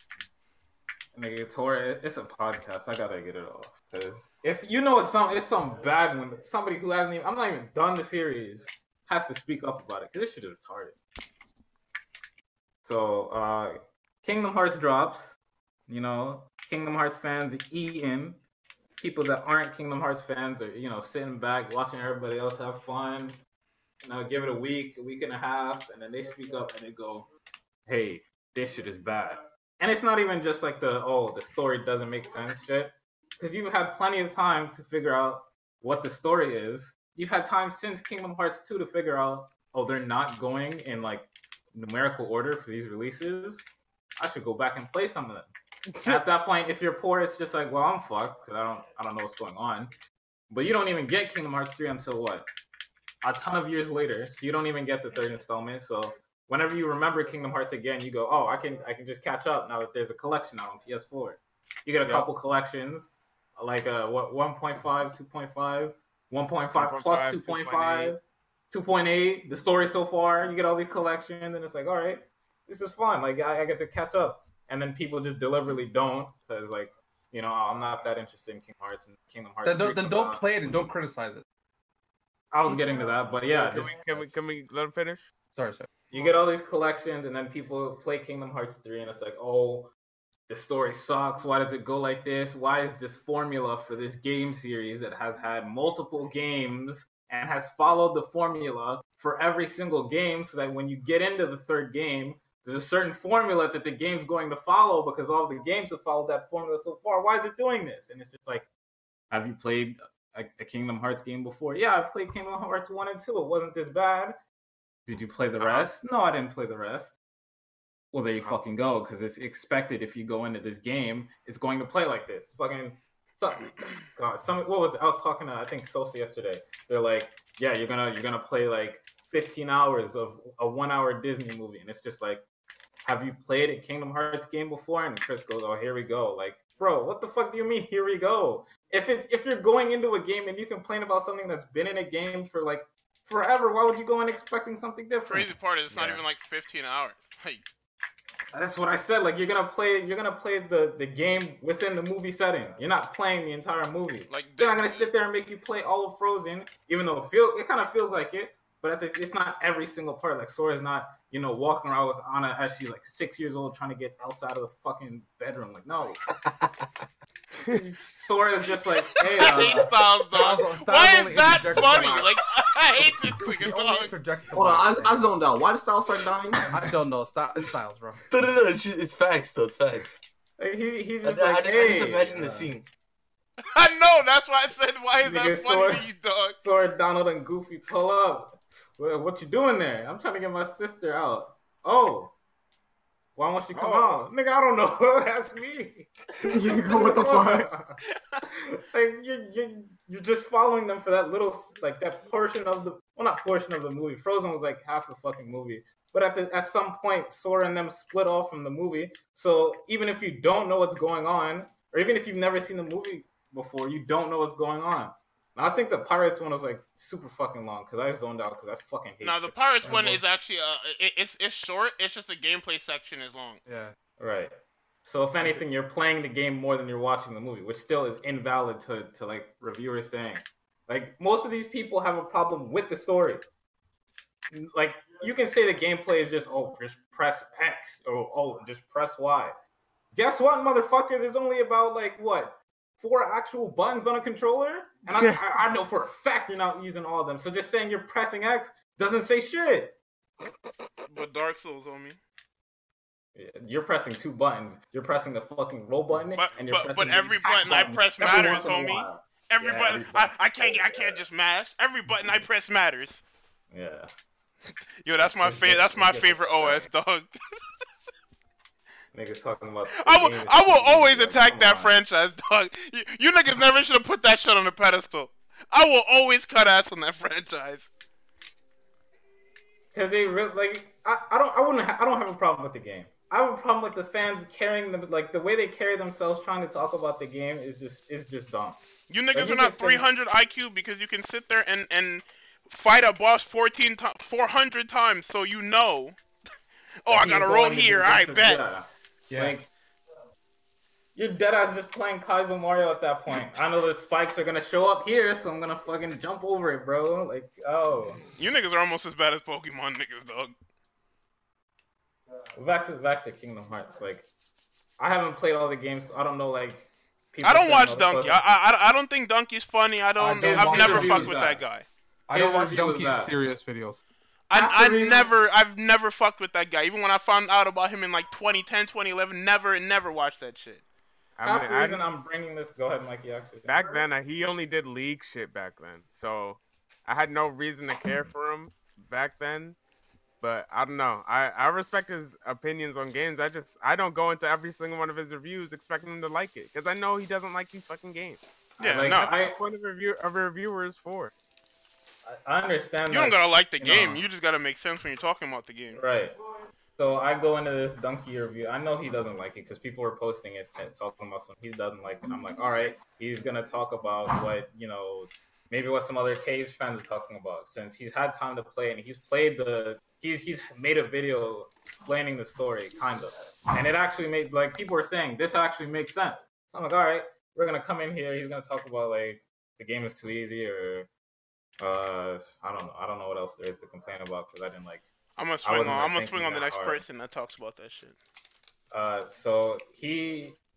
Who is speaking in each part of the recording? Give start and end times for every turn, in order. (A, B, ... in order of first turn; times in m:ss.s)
0:01.1-0:11.0 A
0:12.8-0:15.4 A
0:15.9-0:18.4 A
0:19.0-0:23.4 A
0:24.0-0:27.3 A
0:27.9-0:43.6 A
0:44.2-0:45.5 A
0:46.0-0:49.9 A
0:50.5-0:52.5 A
0:53.2-1:20.4 A
1:02.0-1:02.3 B
1:06.7-1:08.1 B
1:19.6-1:21.4 C
1:22.5-1:24.3 A
1:23.5-1:25.3 B
1:25.5-1:25.9 C
1:26.1-1:29.9 A
1:30.5-1:48.7 A
1:49.3-1:54.3 A
1:55.1-1:57.2 A
1:58.1-2:12.4 A
2:13.0-2:26.2 A
2:25.3-2:27.6 D
2:25.9-2:26.2 B
2:28.5-2:46.2 A
2:34.3-2:35.1 D
2:47.6-2:47.9 B
2:47.8-2:49.9 A
2:49.4-2:54.1 D
2:50.3-2:52.3 C
2:53.6-2:55.2 C
2:54.5-2:56.6 E
2:56.7-2:58.2 C
2:58.3-3:00.2 F
3:00.6-3:02.7 A
3:01.2-3:02.9 F
3:03.7-3:06.6 D
3:05.2-3:06.1 A
3:06.6-3:12.3 A
3:13.4-3:40.2 A
3:13.7-3:14.2 B
3:16.5-3:17.7 E
3:39.2-3:43.6 D
3:43.7-3:43.9 C
3:44.2-3:53.4 A
3:54.5-3:59.5 A
4:00.1-4:10.0 A
4:11.1-4:12.2 D
4:13.3-4:21.2 A
4:16.3-4:23.2 D
4:23.7-4:24.1 A
4:25.0-4:27.3 D
4:25.2-4:26.9 A
4:29.1-4:32.0 A
4:30.0-4:37.9 D
4:39.9-4:48.8 A
4:49.1-4:56.2 D
4:49.3-4:50.1 A
4:57.0-4:58.6 D
4:57.1-4:59.7 A
4:59.3-4:59.6 C
5:01.2-5:08.2 A
5:08.4-5:10.5 D
5:12.6-5:14.3 A
5:15.0-5:18.4 A
5:17.4-5:21.8 D
5:20.2-5:21.4 C
5:20.4-5:21.6 A
5:22.3-5:24.0 C
5:22.3-5:23.3 A
5:24.5-5:30.8 D
5:24.5-5:25.3 A
5:31.4-5:32.0 B
5:31.4-5:34.0 A
5:33.6-5:39.8 B
5:40.4-5:48.4 B
5:48.8-5:49.6 A
5:48.8-5:49.3 D
5:49.0-5:51.3 B
5:52.2-5:54.2 A
5:53.1-5:56.0 D
5:55.9-5:56.3 A
5:57.0-6:21.1 A
6:21.8-6:25.1 A
6:25.4-6:28.2 D
6:25.6-6:27.0 A
6:28.9-6:30.6 A